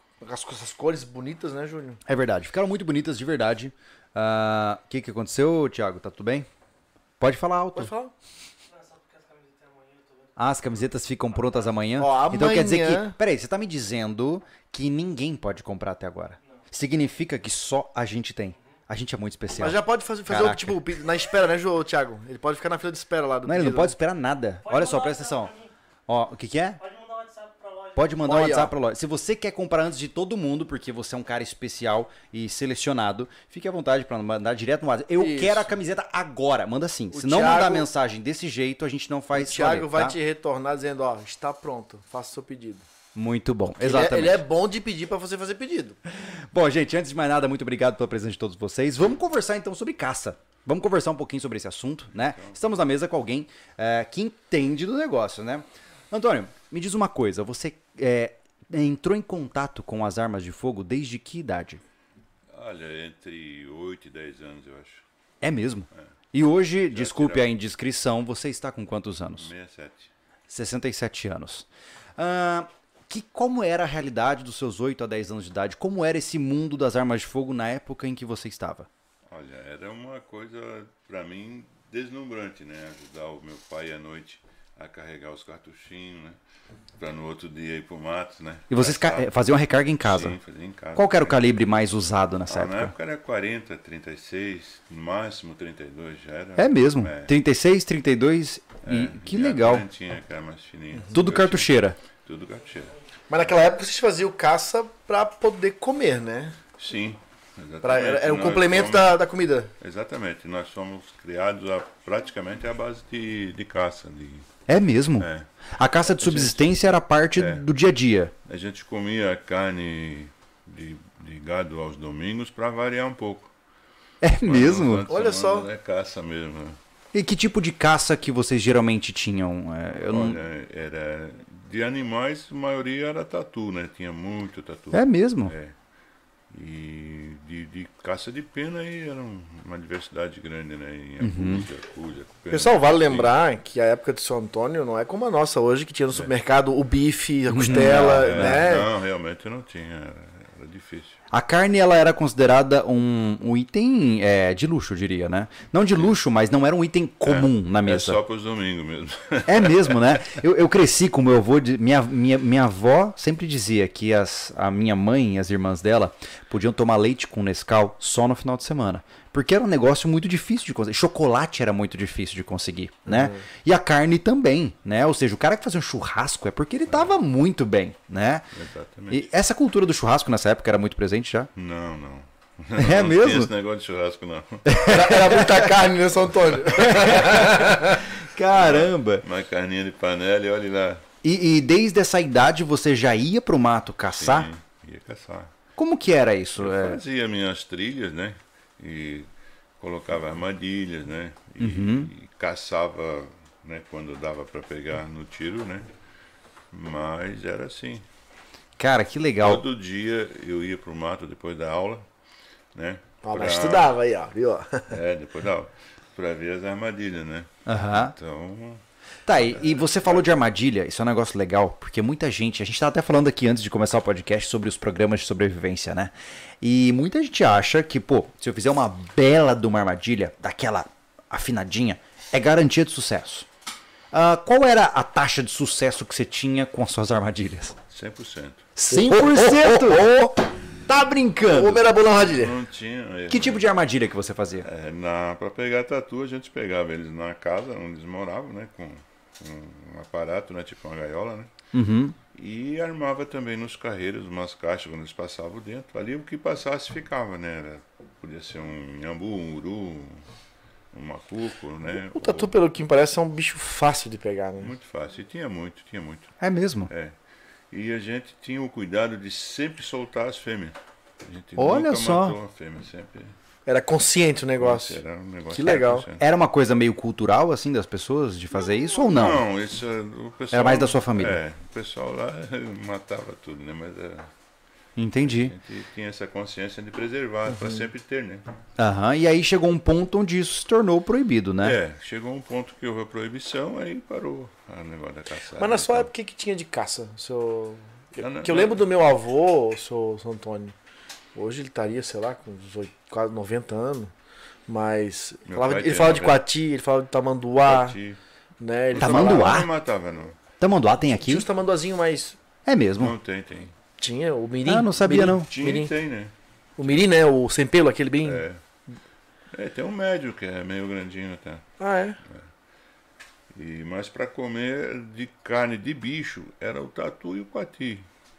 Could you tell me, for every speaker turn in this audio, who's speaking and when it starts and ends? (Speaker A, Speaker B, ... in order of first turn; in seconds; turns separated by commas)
Speaker A: 0.2-2.0, Speaker B: 2.0-6.5, Speaker B: 7.2-7.9, Speaker A: 7.7-8.1, Speaker C: 8.8-10.3, Speaker B: 10.3-20.8, Speaker A: 12.0-13.2, Speaker A: 19.6-23.9, Speaker B: 23.4-25.6, Speaker B: 26.1-26.8, Speaker C: 26.8-27.9, Speaker B: 27.9-40.1, Speaker A: 28.2-28.7, Speaker A: 35.2-35.7, Speaker A: 37.1-37.9, Speaker A: 39.3-42.8, Speaker B: 43.1-44.4, Speaker A: 43.8-46.0, Speaker B: 46.1-61.8, Speaker D: 52.3-52.5, Speaker D: 62.5-65.0, Speaker B: 65.4-69.5, Speaker D: 66.9-67.5, Speaker D: 69.4-70.1, Speaker B: 70.5-78.9, Speaker D: 79.3-86.4, Speaker D: 87.0-89.3, Speaker B: 88.7-90.3, Speaker D: 90.0-91.5, Speaker B: 90.9-92.9, Speaker D: 92.5-97.3, Speaker B: 96.6-99.8, Speaker D: 98.8-101.7, Speaker B: 101.1-102.0, Speaker D: 102.2-102.9, Speaker A: 103.3-106.6, Speaker D: 106.8-109.2, Speaker A: 107.8-109.7, Speaker D: 109.8-114.5, Speaker B: 114.7-118.3, Speaker D: 115.2-115.5, Speaker D: 116.2-116.8, Speaker D: 117.3-117.6, Speaker D: 118.5-123.5, Speaker B: 124.2-125.0, Speaker D: 124.4-126.8, Speaker A: 125.1-125.7, Speaker B: 127.1-130.4, Speaker D: 130.1-135.7, Speaker B: 134.9-135.5, Speaker D: 136.5-143.3, Speaker B: 141.2-141.7, Speaker A: 142.5-148.9, Speaker B: 147.5-148.7, Speaker D: 147.7-151.2, Speaker B: 151.3-158.2, Speaker D: 157.2-160.4, Speaker B: 159.4-178.4, Speaker A: 173.1-173.4, Speaker D: 178.5-179.3, Speaker B: 179.1-181.5, Speaker D: 181.6-184.7, Speaker B: 182.8-183.5, Speaker B: 184.7-185.7, Speaker A: 184.8-188.0, Speaker B: 186.7-189.2, Speaker D: 188.5-191.0, Speaker B: 191.2-194.5, Speaker D: 194.2-195.5, Speaker B: 195.8-197.0, Speaker D: 196.6-199.3, Speaker D: 199.8-205.9, Speaker B: 201.6-202.1, Speaker D: 206.7-208.0, Speaker B: 208.8-209.6, Speaker D: 209.4-212.1, Speaker D: 212.7-213.9, Speaker A: 213.2-215.0, Speaker D: 214.9-218.8, Speaker B: 217.7-218.1, Speaker B: 219.2-233.5, Speaker D: 219.3-220.3, Speaker B: 234.1-237.7, Speaker D: 237.9-238.7, Speaker B: 238.8-240.2, Speaker A: 238.9-240.3, Speaker B: 240.9-241.8, Speaker A: 241.4-242.6, Speaker D: 242.2-243.6, Speaker B: 243.3-244.7, Speaker D: 244.6-251.5, Speaker B: 251.7-252.1, Speaker D: 252.3-260.2, Speaker D: 260.9-262.6, Speaker A: 262.1-264.7, Speaker D: 264.6-266.4, Speaker B: 266.4-266.9, Speaker D: 266.9-267.1, Speaker D: 267.7-273.3, Speaker B: 271.6-272.4, Speaker A: 273.6-276.1, Speaker D: 274.6-276.2, Speaker B: 276.2-279.4, Speaker D: 279.0-284.3, Speaker B: 280.5-281.4, Speaker B: 285.0-285.5, Speaker D: 285.2-288.4, Speaker A: 287.5-287.9, Speaker B: 288.8-291.8, Speaker D: 291.6-296.1, Speaker A: 295.5-300.7, Speaker D: 298.2-298.8, Speaker A: 301.3-304.1, Speaker A: 304.7-308.0, Speaker D: 305.4-306.4, Speaker D: 307.6-308.2, Speaker A: 308.6-309.6, Speaker B: 308.9-309.7, Speaker D: 308.9-310.4, Speaker B: 310.6-311.5, Speaker A: 311.2-312.4, Speaker B: 312.6-313.1, Speaker D: 313.0-313.7, Speaker A: 314.0-315.9, Speaker B: 314.6-315.5, Speaker D: 315.5-316.3, Speaker A: 316.8-318.4, Speaker D: 318.2-318.6, Speaker D: 319.5-321.7, Speaker A: 321.8-322.2, Speaker D: 323.5-328.1